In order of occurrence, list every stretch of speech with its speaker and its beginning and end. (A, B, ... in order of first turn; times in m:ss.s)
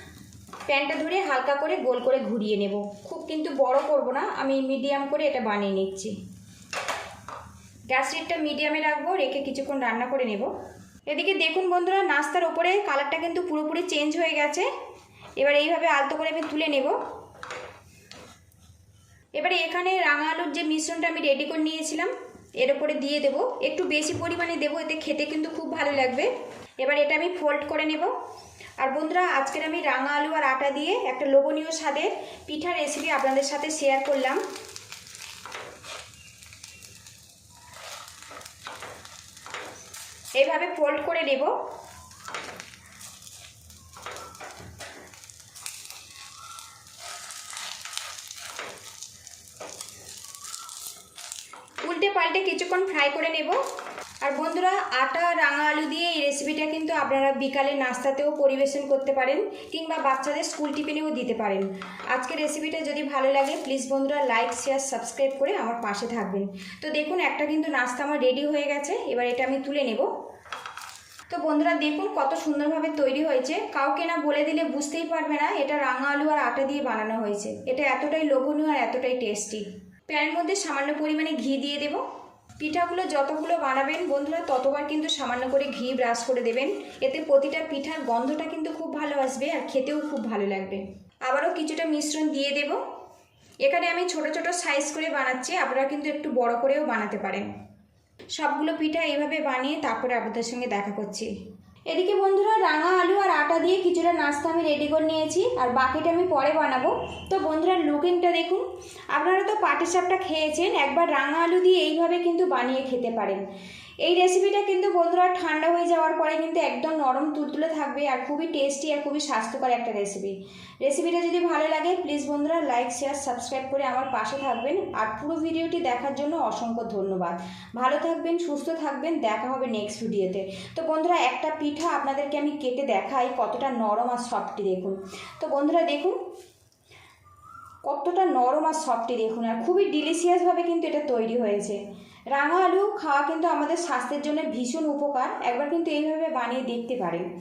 0:00.7-0:06.2 A
0:07.9-0:10.5 A
0:11.1-0:14.7 A
0:15.4-0:17.0 A
0:19.3-0:26.3 A
0:26.8-0:28.1 A
0:28.8-0:34.4 A
0:40.4-0:41.5 A
0:51.8-0:53.6 A
0:54.2-1:10.1 A
1:11.3-1:22.0 A
1:22.6-1:32.8 A
1:33.6-1:37.5 A
1:38.4-1:41.3 A
1:41.9-1:53.4 A
1:54.0-2:16.2 A
2:17.8-2:21.8 A
2:22.3-2:27.3 A